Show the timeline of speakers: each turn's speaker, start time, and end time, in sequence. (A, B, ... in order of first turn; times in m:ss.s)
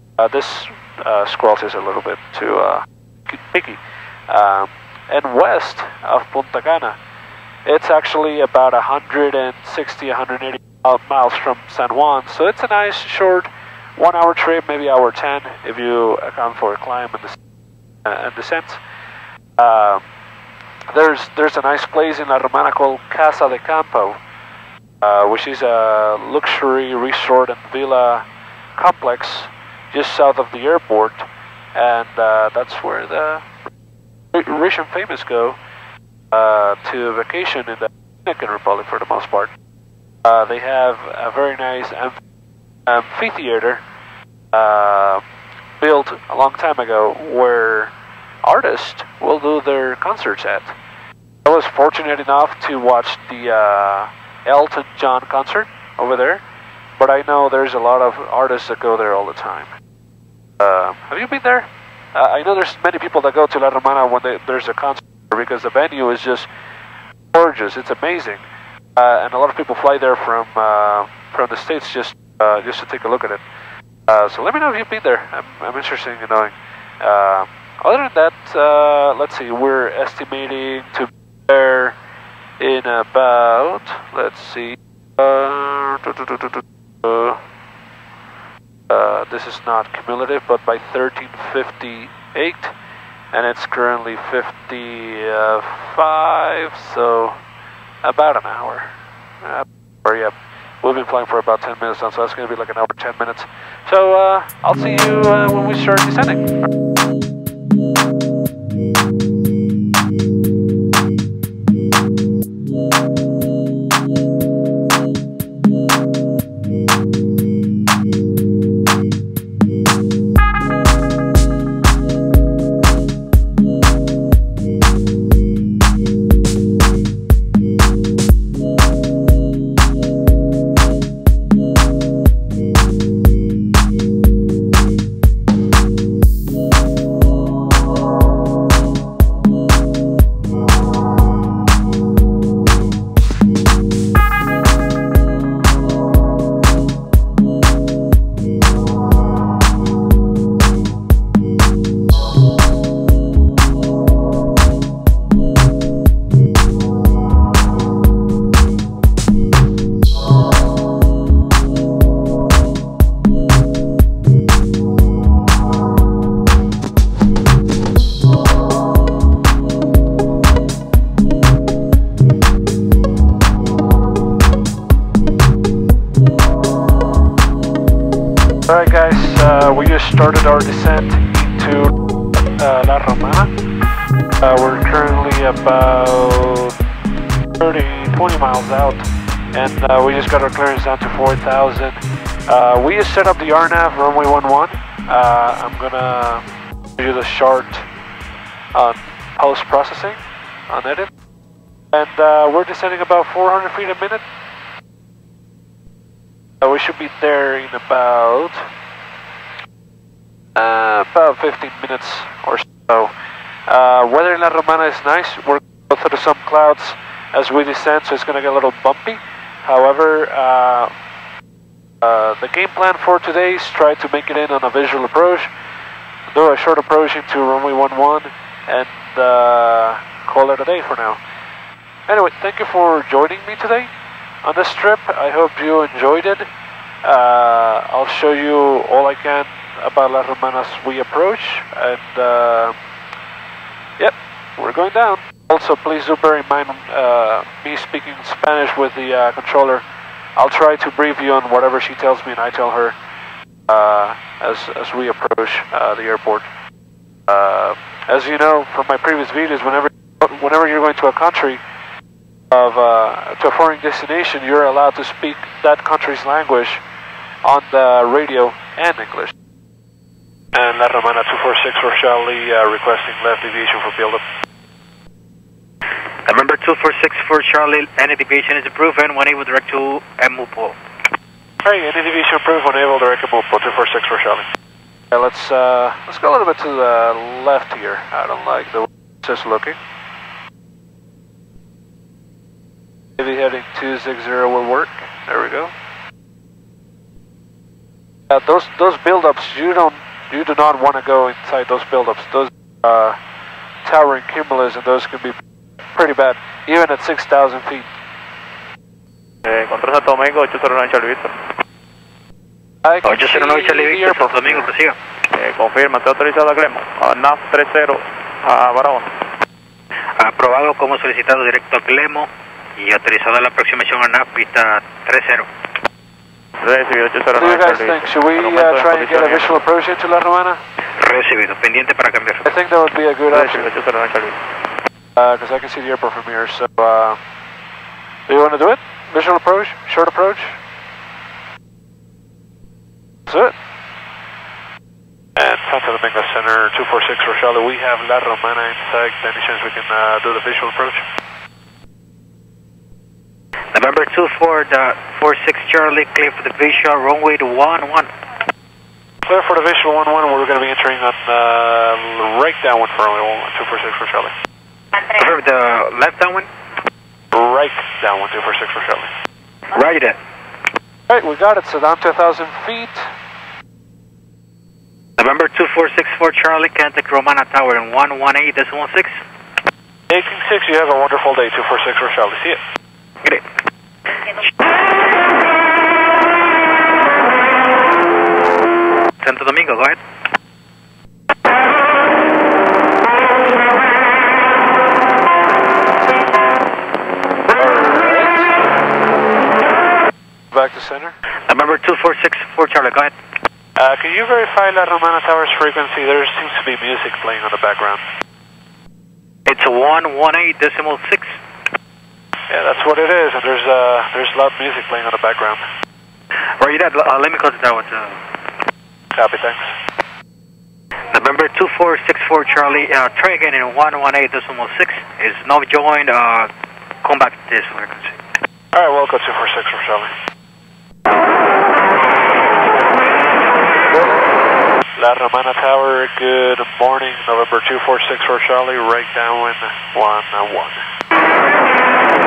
0:00.2-0:07.0 A
0:07.6-0:17.4 A
0:18.0-0:18.8 A
0:19.6-0:20.0 A
0:20.9-0:24.2 A
0:25.0-0:28.2 A
0:28.8-0:33.5 A
0:34.3-0:35.6 A
0:36.3-0:39.5 A
0:40.2-0:42.2 A
0:42.9-0:43.8 A
0:44.5-0:45.2 A
0:45.8-0:50.7 A
0:51.4-0:56.4 A
0:57.0-0:59.7 A
1:00.6-1:06.5 A
1:07.3-1:08.4 A
1:09.0-1:13.4 A
1:14.1-1:22.0 A
1:22.6-1:27.4 A
1:28.9-1:32.7 A
1:33.3-1:37.4 A
1:38.0-1:46.6 A
2:58.7-3:01.9 A
3:02.6-3:03.5 A
3:04.4-3:06.8 A
3:07.6-3:16.4 A
3:17.0-3:17.9 A
3:18.7-3:21.1 A
3:21.9-3:24.2 A
3:26.6-3:28.7 A
3:30.6-3:33.1 A
3:33.7-3:40.9 A
3:42.0-3:45.5 A
3:46.3-3:51.2 A
3:52.1-3:53.9 A
3:54.4-3:56.5 A
3:57.0-4:02.8 A
4:04.0-4:09.8 A
4:10.4-4:12.9 A
4:13.7-4:16.5 A
4:17.3-4:21.6 A
4:22.5-4:26.8 A
4:27.4-4:29.3 A
4:30.5-4:34.2 A
4:36.2-4:40.8 B
4:41.6-4:44.5 A
4:45.1-4:49.8 A
4:53.2-4:55.7 A
4:58.3-5:03.2 A
5:03.8-5:05.4 A
5:05.9-5:07.9 A
5:09.4-5:11.3 C
5:12.8-5:14.6 A
5:13.0-5:15.0 B
5:15.3-5:19.2 C
5:20.2-5:25.5 B
5:26.6-5:29.6 C
5:27.4-5:30.6 A
5:30.8-5:32.5 B
5:32.4-5:33.6 A
5:33.3-5:34.5 C
5:35.2-5:37.2 A
5:38.3-5:40.6 A
5:43.3-5:43.5 A
5:45.4-5:51.0 A
5:53.7-5:58.1 B
5:59.2-6:04.3 A
6:04.9-6:06.5 B
6:07.3-6:09.1 A
6:09.7-6:10.2 B
6:11.1-6:13.1 A
6:15.2-6:19.2 B
6:20.1-6:22.6 A
6:29.2-6:30.0 B
6:37.6-6:38.5 A
6:40.5-6:41.2 A
6:41.5-6:43.1 B
6:43.8-6:48.0 A
6:49.4-6:51.4 B
6:52.5-6:55.6 A
6:56.6-6:58.2 B
6:59.1-6:59.7 A
7:01.1-7:06.5 B
7:07.0-7:08.2 B
7:08.7-7:10.1 A
7:13.9-7:14.2 A
7:15.0-7:20.8 A